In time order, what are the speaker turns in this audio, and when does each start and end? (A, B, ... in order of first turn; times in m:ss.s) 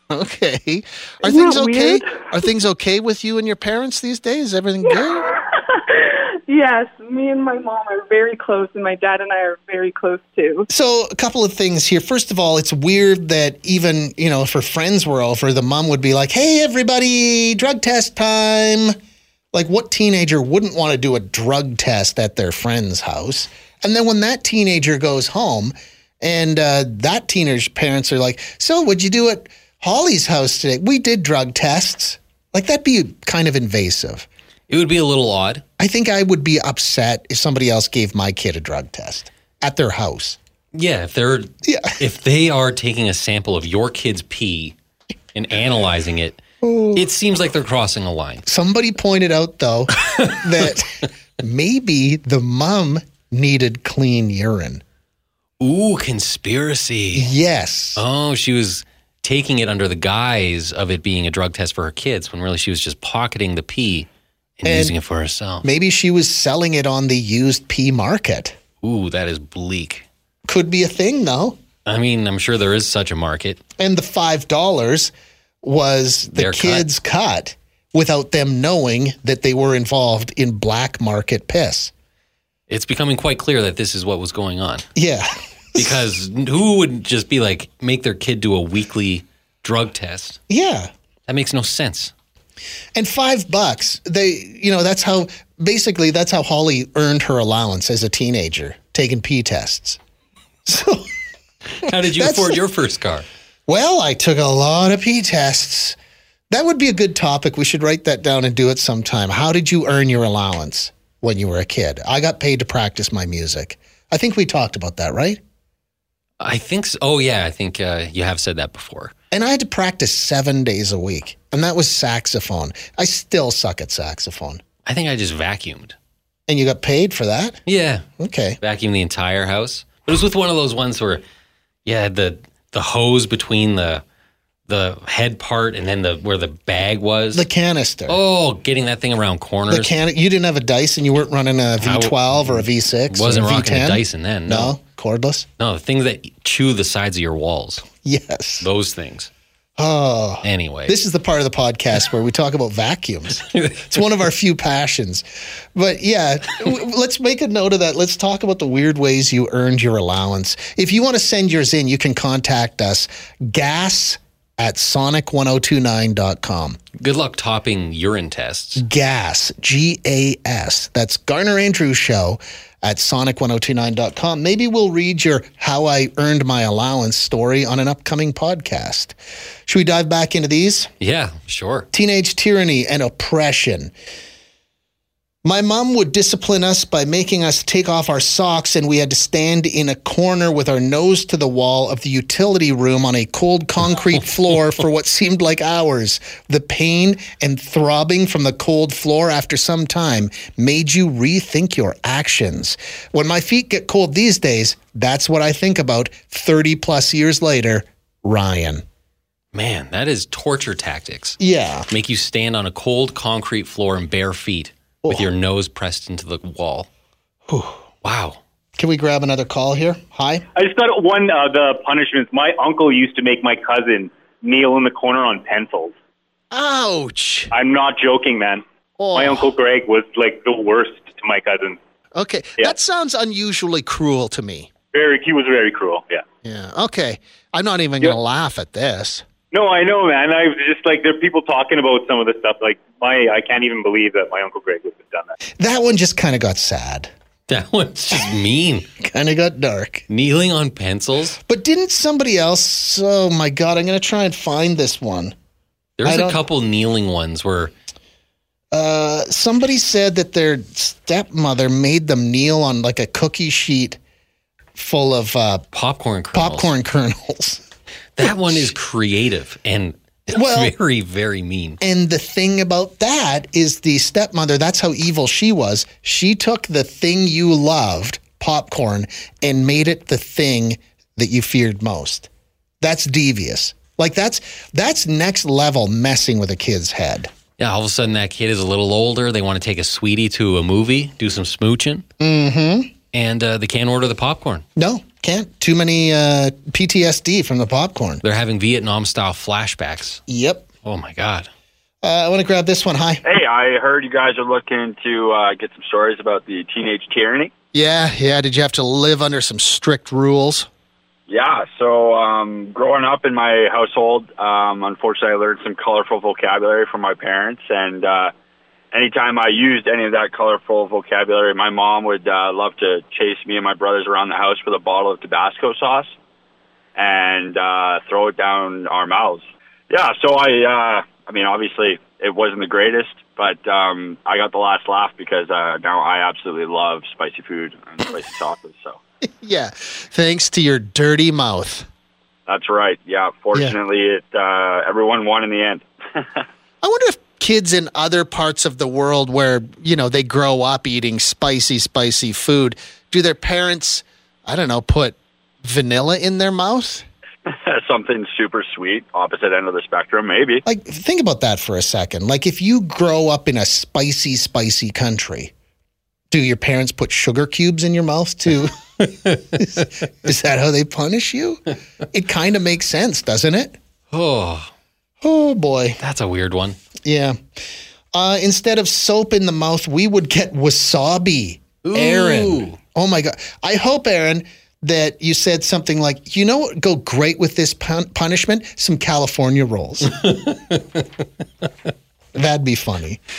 0:00.1-0:05.3 A
0:01.2-0:02.3 B
0:04.8-0:10.7 B
0:10.7-0:18.9 A
0:19.5-0:34.3 A
0:34.7-0:35.6 C
0:35.8-0:40.4 A
0:40.7-0:44.8 C
0:41.6-0:42.0 A
0:45.3-0:46.4 C
0:46.6-0:47.1 A
0:46.9-0:48.4 C
0:48.4-0:54.8 A
0:55.6-0:57.3 C
0:57.1-0:58.0 A
0:58.0-1:04.1 C
1:04.6-1:05.7 C
1:04.6-1:04.9 A
1:05.6-1:08.6 A
1:08.8-1:10.0 C
1:10.5-1:11.6 A
1:11.8-1:13.6 C
1:13.8-1:21.9 A
1:16.3-1:16.9 C
1:22.7-1:24.8 C
1:24.9-1:26.0 A
1:25.8-1:30.4 C
1:30.5-1:30.9 A
1:31.3-1:32.1 C
1:32.9-1:40.0 A
1:40.6-1:41.1 A
1:41.7-1:43.2 C
1:41.9-1:42.6 A
1:43.7-1:46.0 A
1:46.5-1:55.4 A
1:56.4-1:59.1 C
1:59.3-2:04.6 A
2:04.8-2:05.9 C
2:06.5-2:07.6 A
2:07.6-2:08.0 C
2:08.2-2:08.6 A
2:08.6-2:11.2 C
2:11.8-2:14.0 C
2:14.7-2:17.5 C
2:17.3-2:18.2 A
2:18.1-2:19.9 C
2:19.7-2:25.5 A
2:21.8-2:24.8 C
2:25.6-2:27.8 C
2:28.0-2:28.7 A
2:28.6-2:29.3 C
2:29.8-2:46.8 A
2:30.4-2:31.0 C
2:33.4-2:34.0 C
2:47.0-2:48.8 C
2:48.8-3:00.9 A
3:01.0-3:01.9 C
3:01.9-3:03.9 A
3:05.4-3:28.8 A
3:29.5-3:31.4 C
3:31.4-3:31.9 A
3:31.9-3:36.9 C
3:35.0-3:35.3 A
3:37.5-3:37.8 A
3:38.0-3:38.4 C
3:38.8-3:40.4 A
3:40.5-3:45.9 D
3:46.5-3:47.5 A
3:47.5-3:48.6 D
3:49.0-3:49.5 A
3:49.1-3:51.8 D
3:52.1-3:54.7 A
3:54.9-3:56.2 D
3:56.4-3:59.2 A
3:59.5-4:05.3 D
4:05.6-4:07.1 A
4:07.5-4:08.9 C
4:09.0-4:10.0 A
4:10.1-4:11.4 C
4:11.4-4:15.3 A
4:16.0-4:17.7 C
4:16.0-4:16.4 A
4:18.7-4:24.0 A
4:24.8-4:25.6 A
4:25.7-4:26.7 C
4:26.3-4:27.6 A
4:28.2-4:31.8 C
4:28.2-4:28.7 A
4:30.3-4:30.7 A
4:31.8-4:42.3 A
4:42.8-4:47.3 A
4:47.6-4:52.0 C
4:52.2-4:52.9 A
4:53.1-4:54.6 C
4:54.8-4:58.2 A
4:58.2-5:00.2 C
5:00.3-5:00.7 A
5:00.8-5:01.5 C
5:02.0-5:03.2 A
5:03.2-5:07.5 E
5:07.7-5:10.7 A
5:11.3-5:18.3 E
5:18.9-5:26.1 E
5:26.9-5:39.0 E
5:39.2-5:41.9 A
5:42.5-5:46.4 E
5:46.8-5:57.0 A
5:57.4-6:00.6 E
6:00.6-6:05.5 A
6:06.3-6:08.7 A
6:09.0-6:09.8 C
6:09.5-6:13.8 A
6:14.1-6:14.7 C
6:15.2-6:16.0 A
6:16.0-6:16.8 C
6:17.0-6:17.4 A
6:18.1-6:30.1 A
6:21.8-6:22.8 C
6:30.0-6:31.2 C
6:32.3-6:33.2 A